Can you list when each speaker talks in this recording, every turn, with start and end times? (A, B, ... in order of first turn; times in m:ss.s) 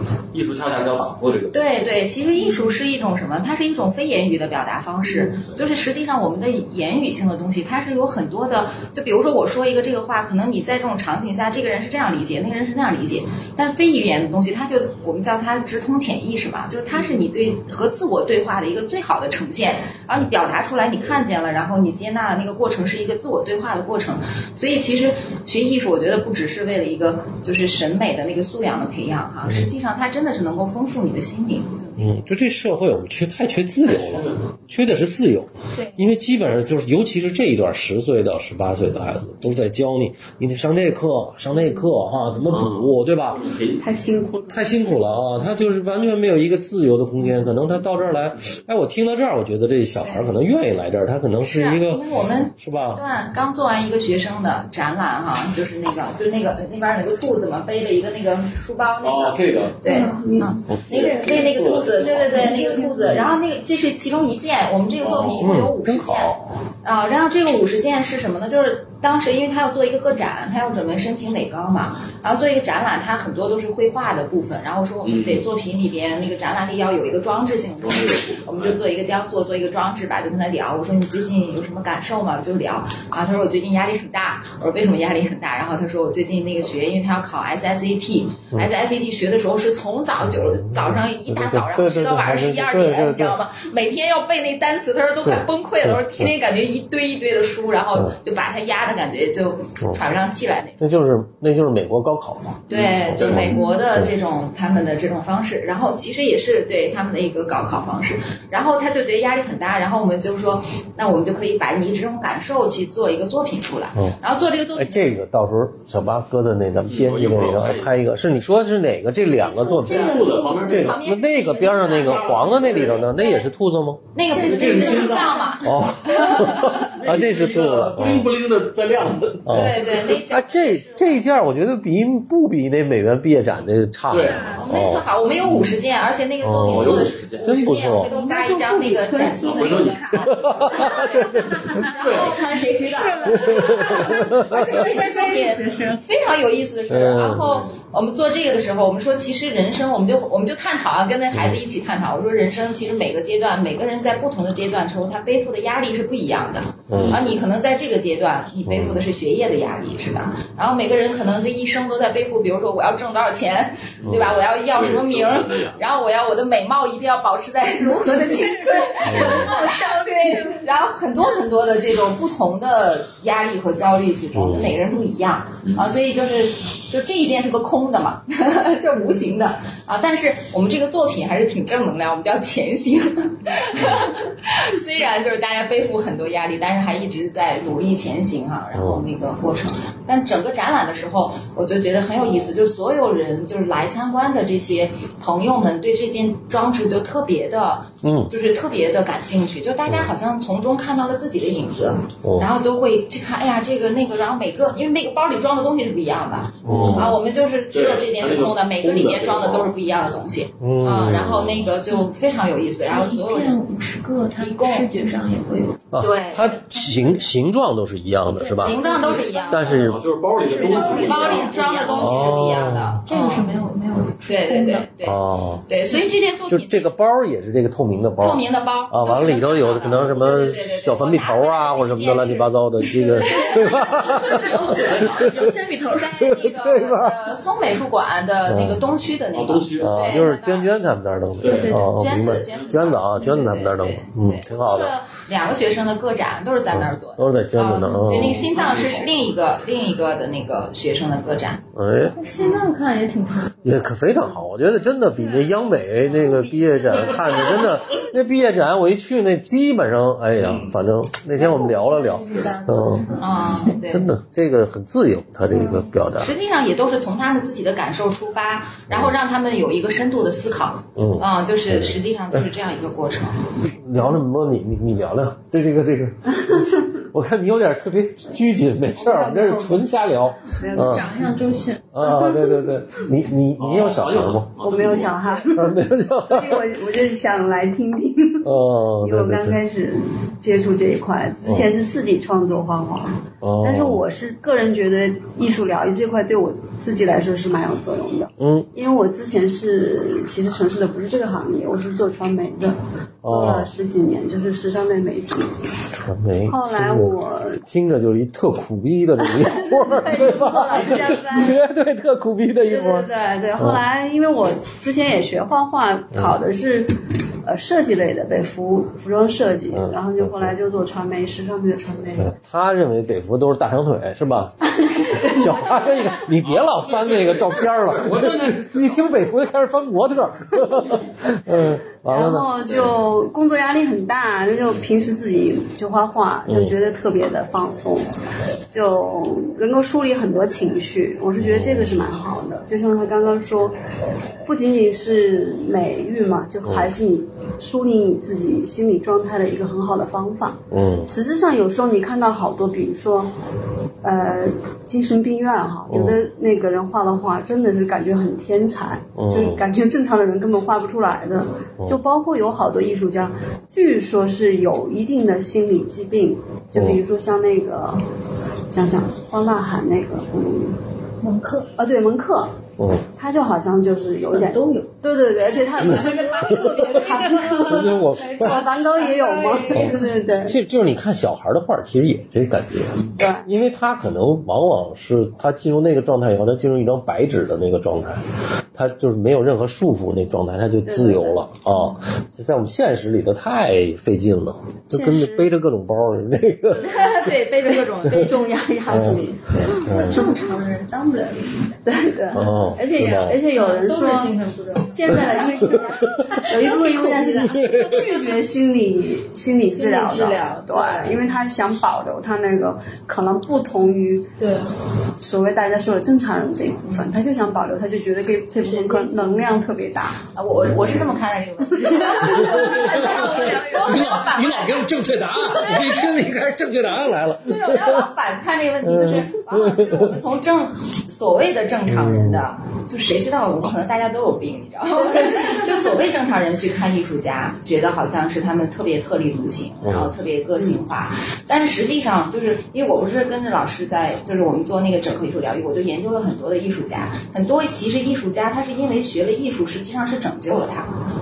0:00.3-0:01.8 A
0:01.5-0:32.3 B
0:32.0-0:43.5 C
0:33.8-0:34.6 A
0:42.5-0:44.6 A
0:43.8-0:44.5 D
0:44.5-0:53.0 C
0:48.2-0:48.6 A
0:50.0-0:50.3 B
0:51.4-1:40.9 B
0:59.0-1:00.1 A
0:59.9-1:00.6 D
0:59.9-1:00.4 E
1:00.7-1:01.0 C
1:00.9-1:03.2 A
1:01.1-1:01.5 E
1:02.0-1:03.3 E
1:05.0-1:06.6 C
1:15.0-1:15.4 A
1:17.8-1:18.8 A
1:30.3-1:33.4 C
1:35.2-1:36.3 C
1:40.8-1:44.1 C
1:42.7-1:55.1 B
1:42.7-1:43.6 A
1:54.8-2:04.1 C
1:56.9-1:57.9 A
1:59.4-2:03.4 B
1:59.8-2:01.0 A
2:01.8-2:03.2 A
2:04.2-2:07.0 B
2:04.4-2:05.4 A
2:04.4-2:05.7 E
2:05.6-2:08.3 C
2:06.6-2:09.7 A
2:09.4-2:15.0 C
2:09.5-2:11.2 B
2:14.1-2:14.5 A
2:14.2-2:14.7 E
2:14.5-3:33.6 B
2:16.4-2:18.1 C
2:16.7-2:17.6 A
2:18.0-2:26.0 E
2:19.4-2:21.2 A
2:20.3-2:21.5 C
2:21.8-2:22.4 A
2:23.4-2:24.8 C
2:26.9-2:27.6 C
2:31.3-2:31.6 C
2:36.9-2:37.2 C
2:36.9-2:37.3 A
2:38.7-2:39.0 C
2:44.0-2:45.8 A
2:48.2-2:50.6 E
2:49.0-2:49.5 C
2:54.3-2:54.8 C
2:55.6-2:55.9 A
3:08.7-3:09.0 C
3:18.0-3:18.3 C
3:22.2-3:22.5 C
3:26.6-3:27.2 C
3:26.7-3:27.1 A
3:27.7-3:29.7 A
3:30.6-3:31.7 C
3:32.9-3:35.8 F
3:34.4-3:34.9 B
3:35.9-3:38.8 C
3:36.0-3:36.6 B
3:38.4-3:39.6 F
3:38.6-3:39.9 B
3:39.5-3:40.0 C
3:39.7-3:41.6 A
3:40.4-3:42.4 F
3:40.7-3:43.5 B
3:40.7-3:41.6 E
3:41.9-3:43.0 C
3:43.1-3:44.9 F
3:44.2-3:46.9 B
3:45.0-3:45.7 C
3:46.5-3:55.5 C
3:48.2-3:55.0 B
3:54.0-3:56.3 F
3:54.6-3:55.4 A
3:55.8-4:00.8 B
3:56.2-3:57.2 C
3:58.4-3:58.8 C
3:59.3-4:00.0 A
3:59.8-4:05.0 C
4:01.4-4:01.8 A
4:01.5-4:01.9 F
4:01.6-4:11.6 B
4:06.7-4:08.5 C
4:08.1-4:09.2 A
4:11.7-4:12.2 C
4:12.2-4:13.8 E
4:13.6-4:26.3 C
4:16.1-4:17.7 B
4:20.4-4:20.7 A
4:21.4-4:23.6 E
4:23.2-4:24.1 B
4:26.2-4:33.5 B
4:28.9-4:29.2 C
4:31.0-4:32.5 C
4:33.6-4:41.1 C
4:39.0-4:39.8 D
4:40.6-4:41.3 D
4:40.6-4:41.9 E
4:41.9-4:44.6 C
4:42.0-4:42.6 D
4:43.6-4:45.2 A
4:44.6-5:05.6 D
4:45.5-4:46.8 C
4:48.4-4:49.6 C
4:51.4-4:51.7 C
4:53.4-4:54.0 C
4:58.4-4:58.7 C
5:03.2-5:03.7 C
5:05.9-5:13.8 C
5:06.5-5:07.6 D
5:09.2-5:11.6 D
5:12.6-5:22.3 D
5:19.7-5:20.6 C
5:22.2-5:32.9 C
5:24.9-5:25.4 D
5:26.2-5:29.3 A
5:32.1-5:38.2 D
5:36.5-5:36.8 C
5:38.7-5:43.8 D
5:41.4-5:42.1 C
5:44.4-5:53.3 D
5:46.6-5:46.9 C
5:50.7-5:51.1 C
5:54.0-6:08.1 D
5:55.9-5:56.2 C
5:59.2-5:59.6 C
6:06.7-6:07.0 C
6:08.7-6:10.8 D
6:11.2-6:11.7 E
6:11.8-6:12.6 D
6:12.8-6:13.1 C
6:13.1-6:20.6 D
6:14.3-6:14.9 E
6:15.8-6:17.7 E
6:15.8-6:16.8 C
6:17.0-6:17.4 B
6:17.6-6:18.6 C
6:18.4-6:19.9 E
6:18.9-6:19.8 B
6:19.7-6:37.3 C
6:23.2-6:23.5 D
6:30.9-6:31.4 D
6:34.9-6:35.5 D
6:36.7-6:39.9 B
6:37.8-6:40.3 D
6:38.9-6:39.2 C
6:39.7-6:41.8 E
6:39.8-6:40.3 C
6:41.8-6:54.3 D
6:42.3-6:43.4 C
6:42.9-6:48.1 E
6:45.1-6:46.0 B
6:46.7-6:47.1 B
6:47.5-6:48.1 C
6:49.7-6:51.2 E
6:50.7-6:51.1 B
6:54.4-6:54.8 E
6:55.2-7:00.2 D
6:58.6-6:59.5 E
7:00.4-7:04.9 B
7:00.5-7:01.2 C
7:01.9-7:02.5 D
7:02.2-7:08.1 C
7:02.7-7:03.5 E
7:05.5-7:06.0 B
7:07.4-7:30.9 B
7:08.8-7:10.2 C
7:11.9-7:12.4 C
7:19.8-7:20.1 C